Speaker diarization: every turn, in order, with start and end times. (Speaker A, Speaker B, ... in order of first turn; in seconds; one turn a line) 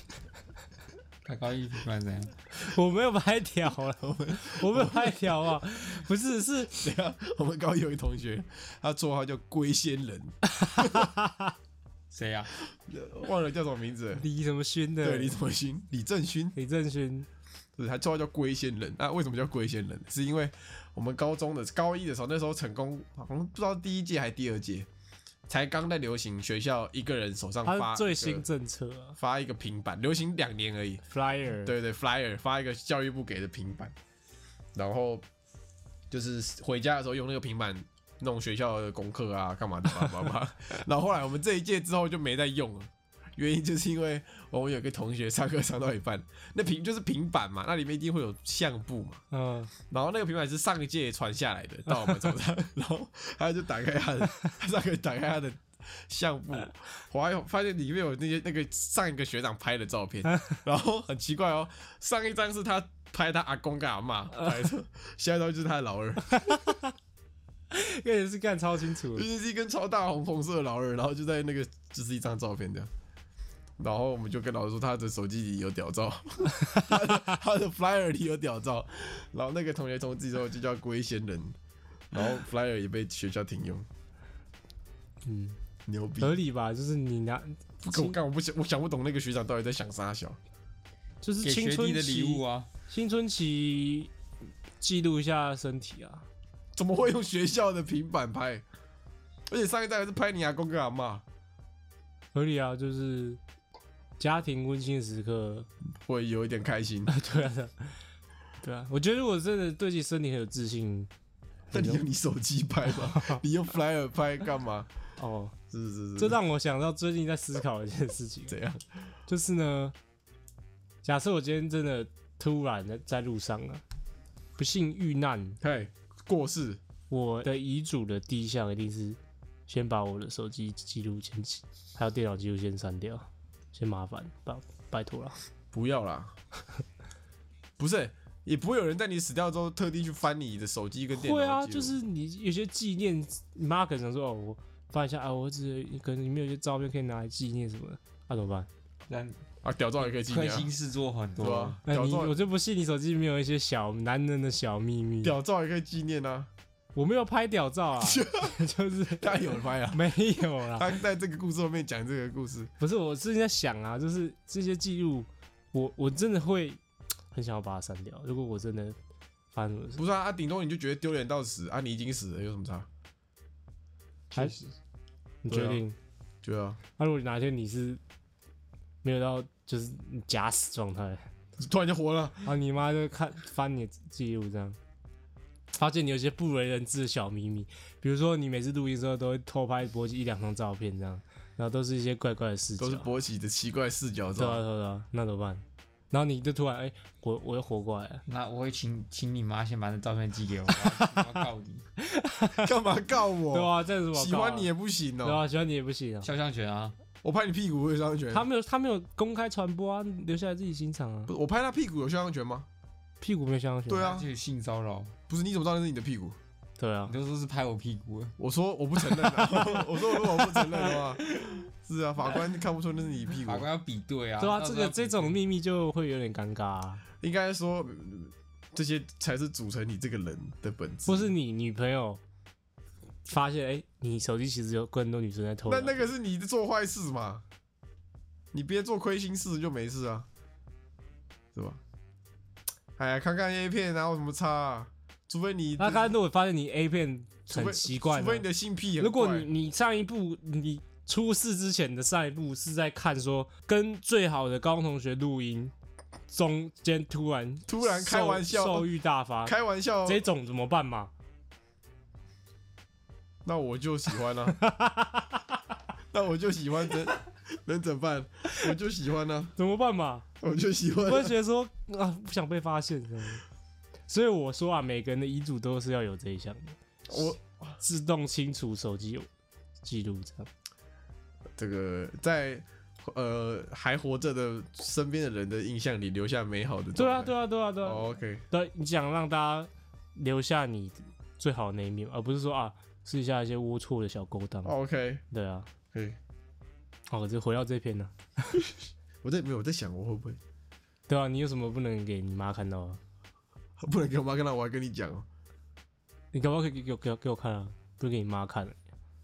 Speaker A: 1.2-2.3
Speaker B: 2.5-6.9
Speaker C: 4.0-5.3
Speaker C: 6.8-11.1
Speaker B: 10.6-11.5
Speaker A: 12.1-12.6
Speaker C: 12.7-14.2
Speaker B: 14.2-15.3
Speaker C: 15.0-16.6
Speaker B: 16.6-17.3
Speaker C: 17.8-24.9
Speaker C: 25.5-28.4
Speaker B: 27.6-29.2
Speaker C: 29.2-31.0
Speaker B: 31.1-31.7
Speaker C: 31.6-33.9
Speaker C: 34.7-35.2
Speaker C: 36.1-49.2
Speaker B: 49.3-49.7
Speaker C: 49.9-66.5
Speaker B: 66.3-66.8
Speaker B: 67.7-69.3
Speaker C: 69.1-72.9
Speaker C: 73.8-81.5
Speaker C: 82.1-83.9
Speaker B: 85.2-85.6
Speaker C: 85.8-86.4
Speaker B: 86.2-88.2
Speaker C: 87.8-90.4
Speaker B: 91.2-94.1
Speaker A: 91.4-92.7
Speaker B: 94.8-96.2
Speaker C: 96.7-98.6
Speaker C: 99.5-101.2
Speaker B: 102.3-103.4
Speaker B: 104.2-105.7
Speaker C: 106.0-107.1
Speaker B: 107.1-108.0
Speaker B: 108.6-111.1
Speaker C: 111.7-114.9
Speaker B: 111.7-112.0
Speaker B: 112.8-113.4
Speaker B: 115.2-115.5
Speaker C: 115.7-116.4
Speaker B: 116.2-118.5
Speaker C: 118.5-118.8
Speaker B: 119.3-119.9
Speaker B: 121.0-123.8
Speaker B: 124.5-125.6
Speaker C: 125.6-126.8
Speaker B: 127.1-135.4
Speaker C: 135.7-136.3
Speaker C: 137.8-141.9
Speaker B: 141.1-148.7
Speaker A: 149.1-149.4
Speaker C: 149.6-150.7
Speaker A: 150.0-151.8
Speaker C: 151.4-152.3
Speaker B: 151.8-155.3
Speaker C: 155.2-156.5
Speaker B: 156.9-160.9
Speaker C: 158.0-158.6
Speaker C: 159.1-160.1
Speaker C: 160.7-162.7
Speaker B: 162.8-166.8
Speaker B: 167.3-169.0
Speaker B: 169.5-170.0
Speaker C: 169.9-172.9
Speaker B: 175.4-175.9
Speaker C: 175.5-175.8
Speaker C: 176.4-176.8
Speaker B: 177.0-178.0
Speaker B: 179.0-181.2
Speaker C: 181.6-182.5
Speaker B: 182.4-184.8
Speaker B: 185.7-193.1
Speaker C: 192.8-194.6
Speaker B: 194.3-198.2
Speaker A: 198.3-201.8
Speaker B: 200.9-201.3
Speaker B: 202.0-202.7
Speaker C: 202.6-205.4
Speaker B: 203.5-204.7
Speaker B: 205.2-206.3
Speaker A: 206.2-206.9
Speaker C: 207.2-208.4
Speaker B: 208.3-211.3
Speaker C: 211.3-212.7
Speaker B: 213.2-214.1
Speaker C: 213.9-214.3
Speaker A: 213.9-215.1
Speaker C: 215.3-216.4
Speaker B: 216.8-217.1
Speaker A: 217.1-218.3
Speaker C: 218.4-223.7
Speaker B: 219.2-220.5
Speaker A: 221.3-221.6
Speaker A: 223.4-225.3
Speaker B: 224.4-227.0
Speaker C: 227.2-231.3
Speaker B: 231.1-232.2
Speaker B: 233.2-236.1
Speaker C: 235.7-237.4
Speaker C: 238.5-240.3
Speaker C: 241.5-241.8
Speaker C: 243.0-246.1
Speaker B: 245.8-248.4
Speaker C: 247.5-249.5
Speaker B: 249.0-255.7
Speaker B: 256.3-261.1
Speaker C: 257.7-258.9
Speaker C: 259.4-260.2
Speaker C: 263.4-264.6
Speaker B: 264.6-265.4
Speaker C: 266.1-269.5
Speaker B: 269.6-270.2
Speaker C: 270.4-271.3
Speaker B: 271.0-273.4
Speaker B: 274.1-279.3
Speaker C: 277.1-277.8
Speaker B: 279.8-280.5
Speaker C: 281.6-288.4
Speaker B: 286.9-294.7
Speaker C: 294.6-295.2
Speaker B: 295.3-295.7
Speaker C: 295.9-296.2
Speaker B: 297.1-298.6
Speaker C: 299.2-300.4
Speaker B: 301.1-303.0
Speaker C: 303.8-305.3
Speaker B: 306.3-308.8